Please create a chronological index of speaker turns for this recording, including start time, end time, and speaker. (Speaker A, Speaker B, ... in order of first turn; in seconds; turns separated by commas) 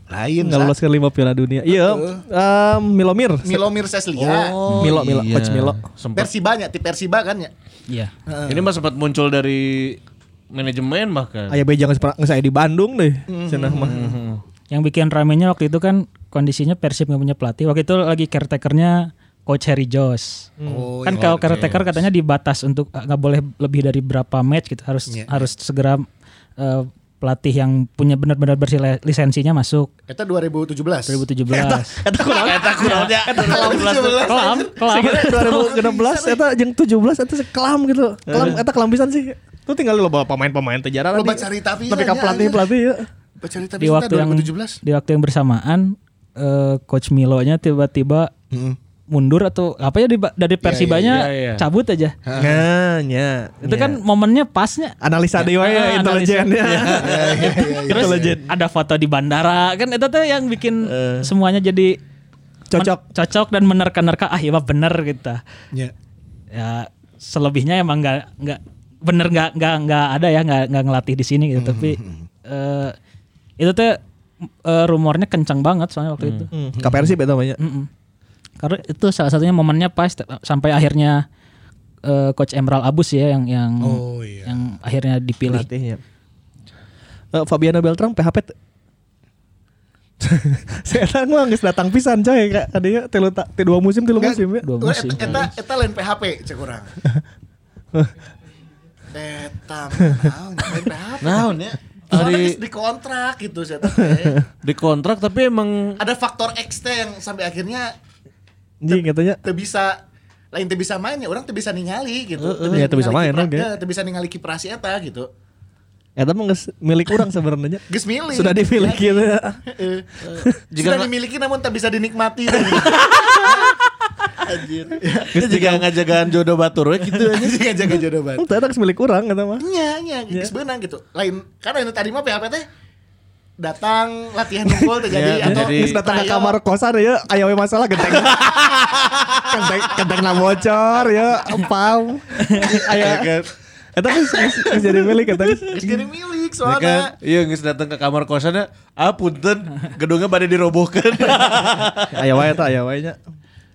Speaker A: 0.1-0.7, Speaker B: 0.4-3.6, Speaker A: 1.7-2.2, Speaker A: 3.4-4.5, Speaker C: 4.2-6.3, Speaker B: 4.8-5.8, Speaker A: 6.2-7.5, Speaker A: 8.3-8.7, Speaker C: 8.5-10.0, Speaker C: 10.5-11.6, Speaker B: 11.5-14.0, Speaker A: 13.3-14.2, Speaker C: 13.8-14.4, Speaker D: 14.7-20.5, Speaker B: 20.6-20.9, Speaker A: 20.7-21.8, Speaker D: 21.0-26.1, Speaker C: 21.1-21.9, Speaker A: 25.1-25.4, Speaker D: 26.6-29.9, Speaker A: 30.1-31.2, Speaker D: 31.1-32.0, Speaker B: 31.5-34.0, Speaker C: 32.3-34.4, Speaker A: 33.3-36.4, Speaker D: 34.2-35.8, Speaker B: 34.9-43.1, Speaker C: 38.3-38.6, Speaker A: 41.1-42.7, Speaker A: 43.4-44.8, Speaker D: 43.8-48.3, Speaker A: 48.5-48.8, Speaker D: 49.1-52.1, Speaker A: 50.6-51.2, Speaker C: 51.1-51.6, Speaker A: 52.3-52.6, Speaker B: 52.4-54.0, Speaker D: 53.6-56.7, Speaker B: 55.0-58.5, Speaker C: 56.6-57.6, Speaker A: 56.9-58.4, Speaker D: 58.0-62.0, Speaker C: 60.9-61.3, Speaker B: 62.7-63.0, Speaker D: 62.8-65.4, Speaker D: 66.5-73.0, Speaker A: 71.5-72.3, Speaker D: 73.6-76.5, Speaker C: 76.2-76.5, Speaker B: 76.5-77.6, Speaker D: 77.6-77.9, Speaker D: 78.6-81.2, Speaker D: 82.0-85.7, Speaker A: 83.8-84.6, Speaker B: 85.4-86.0, Speaker B: 87.3-88.5, Speaker B: 90.2-94.7, Speaker A: 94.2-97.0, Speaker D: 94.6-95.5, Speaker C: 95.2-95.5, Speaker A: 99.1-104.5, Speaker C: 101.2-102.6, Speaker B: 104.0-104.3, Speaker C: 104.6-106.0, Speaker A: 106.0-107.9, Speaker B: 108.8-109.4, Speaker A: 108.9-110.0, Speaker A: 110.5-115.3, Speaker C: 112.4-112.9, Speaker B: 112.7-113.7, Speaker B: 116.2-119.6, Speaker A: 117.9-120.1, Speaker C: 120.2-121.1, Speaker A: 120.8-125.7, Speaker B: 123.2-123.7, Speaker C: 125.3-127.6, Speaker B: 125.3-125.9, Speaker A: 127.0-128.5, Speaker B: 128.4-129.7, Speaker A: 129.6-132.6, Speaker A: 133.6-136.6, Speaker B: 134.7-138.7, Speaker C: 135.1-136.1, Speaker C: 138.3-139.5, Speaker B: 139.4-143.4, Speaker A: 140.1-140.4, Speaker A: 140.9-141.7, Speaker A: 142.5-142.9, Speaker C: 142.6-143.5, Speaker B: 143.9-146.1, Speaker A: 144.2-147.1, Speaker C: 146.6-152.2, Speaker B: 152.1-153.2